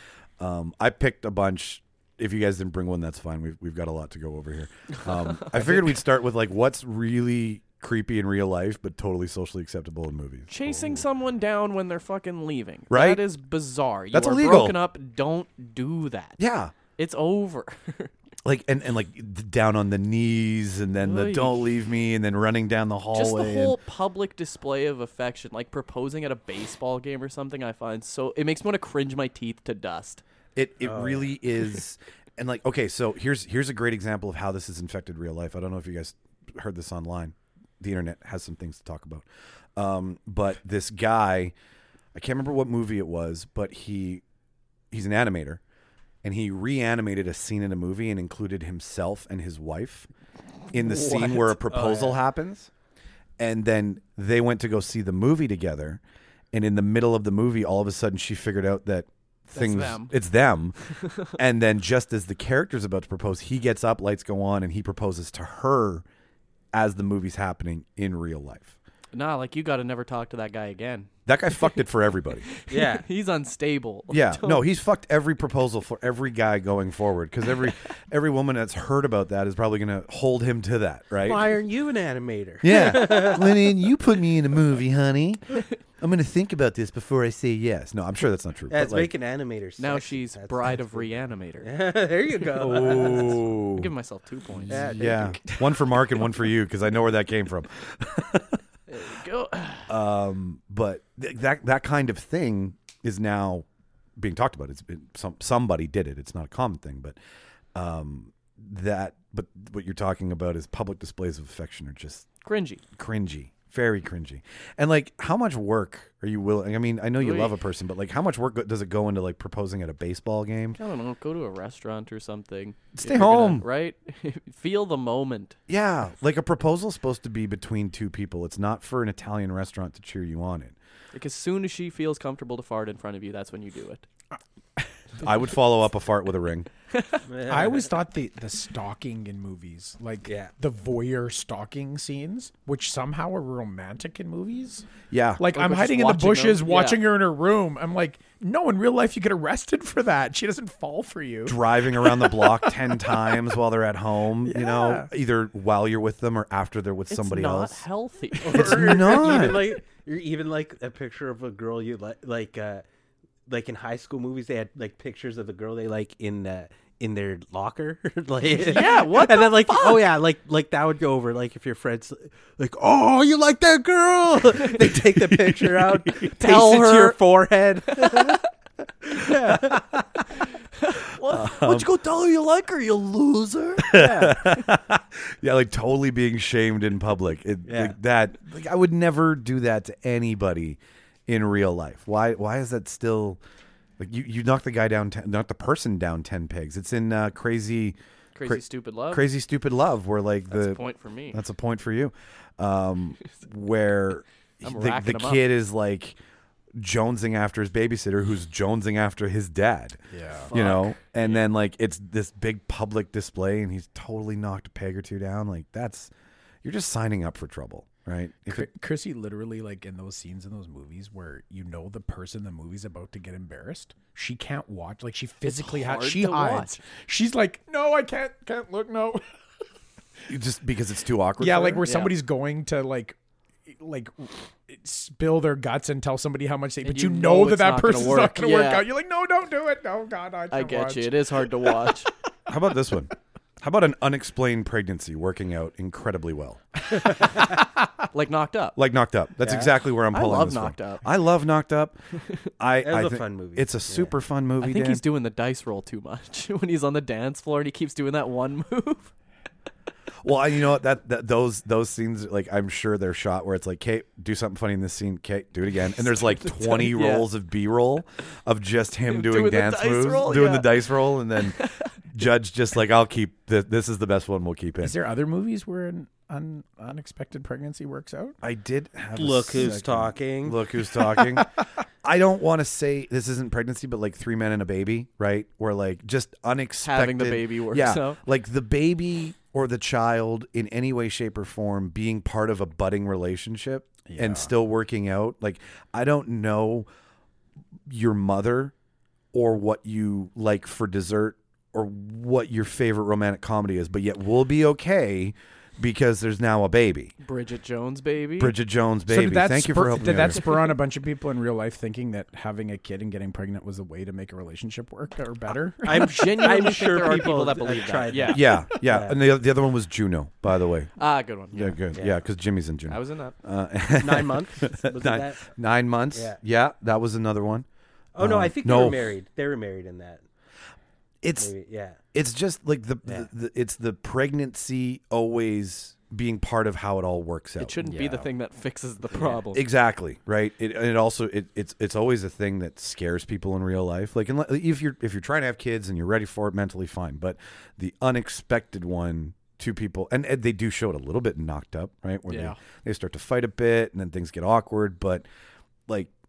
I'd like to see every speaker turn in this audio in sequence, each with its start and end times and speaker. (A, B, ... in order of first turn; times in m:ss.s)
0:00.4-0:11.0 A
0:05.4-0:05.8 B
0:10.5-0:16.4 B
0:12.9-0:13.2 A
0:14.1-0:14.8 A
0:16.4-0:16.7 A
0:17.0-0:18.1 B
0:18.4-0:23.8 A
0:21.0-0:21.7 B
0:23.1-0:30.2 B
0:30.6-0:41.5 A
0:30.8-0:31.3 C
0:42.1-0:44.2 A
0:44.9-0:45.6 A
0:46.2-0:50.1 A
0:50.7-0:52.7 A
0:50.8-0:52.2 C
0:53.4-0:56.0 A
0:56.5-1:06.0 A
0:59.5-1:00.1 B
1:06.7-1:08.8 A
1:09.1-1:11.7 B
1:11.3-1:12.5 A
1:12.5-1:14.6 B
1:12.7-1:13.1 C
1:14.1-1:21.4 A
1:21.2-1:23.7 C
1:22.6-1:29.1 A
1:28.7-1:33.4 C
1:29.8-1:31.7 B
1:32.6-1:33.9 A
1:32.8-1:36.2 B
1:34.7-1:35.4 C
1:34.7-1:38.6 A
1:38.9-1:39.9 B
1:39.9-1:43.7 A
1:44.2-1:47.2 A
1:47.8-1:52.3 A
1:52.4-1:52.8 B
1:52.9-2:00.8 A
1:57.2-1:57.5 B
2:00.8-2:05.6 B
2:02.9-2:03.6 A
2:05.7-2:10.8 A
2:11.1-2:14.0 B
2:15.2-2:16.7 A
2:16.9-2:17.2 B
2:17.3-2:17.9 C
2:17.5-2:24.9 D
2:20.3-2:20.5 C
2:25.1-2:25.4 A
2:25.4-2:33.2 D
2:25.5-2:27.0 B
2:31.5-2:37.8 A
2:34.4-2:35.1 D
2:37.1-2:39.4 B
2:38.4-2:42.8 C
2:38.4-2:39.7 A
2:43.5-2:58.4 C
2:48.5-2:50.2 B
2:55.4-2:56.3 A
2:56.3-2:57.2 B
2:57.9-2:58.4 B
2:59.0-2:59.9 C
3:00.8-3:04.4 B
3:01.3-3:01.9 A
3:03.8-3:13.4 A
3:03.9-3:04.3 D
3:07.7-3:08.0 C
3:14.0-3:26.2 A
3:18.4-3:19.3 B
3:20.5-3:21.4 B
3:24.6-3:25.4 B
3:26.8-3:30.0 A
3:30.1-3:30.5 D
3:30.5-3:31.5 B
3:30.5-3:36.1 A
3:36.6-3:38.7 A
3:38.5-3:49.2 D
3:45.4-3:46.8 B
3:50.3-3:51.9 A
3:51.4-4:02.0 D
3:51.8-3:52.1 B
3:56.8-3:58.8 B
4:00.5-4:02.1 B
4:02.5-4:06.6 A
4:07.2-4:07.6 B
4:08.1-4:08.8 B
4:08.8-4:12.0 A
4:09.4-4:09.7 C
4:10.1-4:11.1 B
4:12.6-4:15.0 A
4:12.8-4:14.1 C
4:14.6-4:19.1 B
4:20.2-4:31.6 A
4:26.0-4:27.3 B
4:29.1-4:31.9 B
4:32.1-4:35.0 A
4:34.8-4:38.4 D
4:38.4-4:56.9 A
4:39.2-4:40.6 C
4:46.8-4:48.2 B
4:54.1-4:54.5 D
4:57.9-4:58.7 A
4:59.3-5:07.1 A
5:07.2-5:08.6 B
5:08.4-5:10.4 A
5:09.1-5:16.5 D
5:15.8-5:19.2 C
5:15.9-5:18.6 B
5:18.3-5:20.9 A
5:21.0-5:21.8 B
5:21.5-5:27.7 A
5:22.9-5:23.4 B
5:24.0-5:25.5 C
5:28.2-5:30.2 C
5:28.2-5:29.0 A
5:31.2-5:31.5 A
5:31.4-5:32.0 C
5:32.1-5:37.8 A
5:37.6-5:39.7 B
5:37.8-5:38.3 D
5:39.5-5:55.3 A
5:52.3-5:52.6 B